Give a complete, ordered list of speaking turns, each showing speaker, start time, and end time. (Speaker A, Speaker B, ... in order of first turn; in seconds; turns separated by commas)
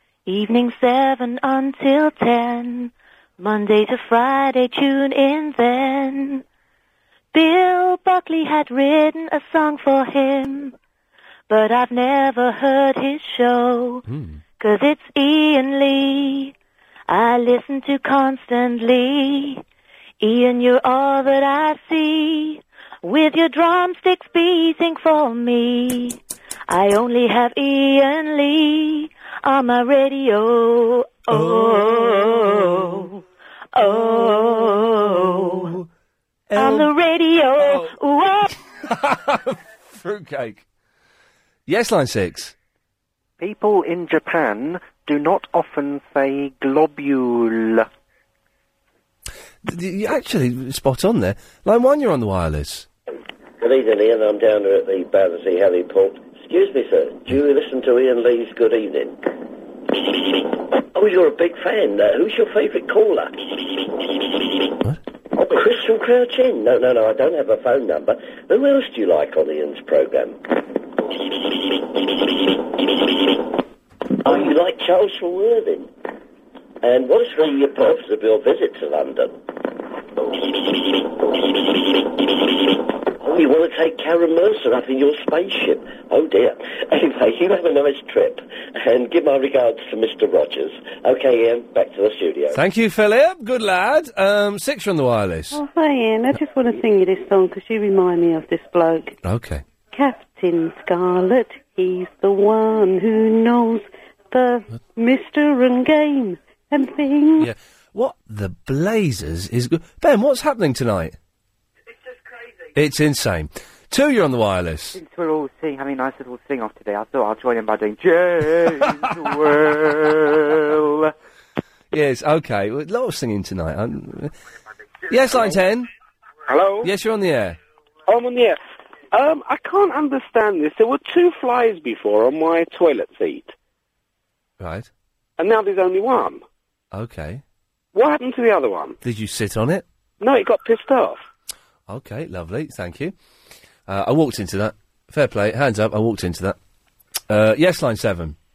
Speaker A: 0.3-6.4, Speaker A: 7.3-10.8, Speaker A: 11.5-14.1, Speaker B: 14.1-14.4, Speaker A: 14.6-16.5, Speaker A: 17.1-19.6, Speaker A: 20.2-33.2, Speaker B: 31.3-32.6, Speaker A: 33.7-35.7, Speaker B: 36.5-36.9, Speaker A: 36.5-38.5, Speaker B: 37.5-38.0, Speaker B: 38.8-40.6, Speaker B: 41.7-42.5, Speaker C: 43.4-47.9, Speaker B: 49.6-52.9, Speaker D: 53.6-59.2, Speaker D: 60.9-63.4, Speaker D: 65.4-70.4, Speaker D: 74.2-75.9, Speaker D: 76.8-79.4, Speaker D: 83.2-92.6, Speaker B: 92.5-95.6, Speaker E: 95.8-96.4, Speaker E: 97.0-99.0, Speaker B: 99.2-99.6, Speaker E: 100.0-101.3, Speaker E: 101.9-103.8, Speaker E: 104.5-107.3, Speaker B: 107.4-111.2, Speaker B: 112.8-115.0, Speaker F: 115.0-119.7, Speaker B: 118.8-119.1, Speaker B: 121.9-124.3, Speaker B: 125.1-125.9, Speaker G: 126.5-126.9, Speaker B: 126.8-127.6, Speaker G: 128.1-128.6, Speaker G: 129.1-133.5, Speaker B: 134.6-134.9, Speaker G: 135.4-136.4, Speaker B: 136.9-137.4, Speaker G: 137.9-139.0, Speaker B: 139.0-139.8, Speaker G: 140.2-141.2, Speaker B: 141.9-143.1, Speaker B: 143.9-146.6, Speaker B: 147.3-148.4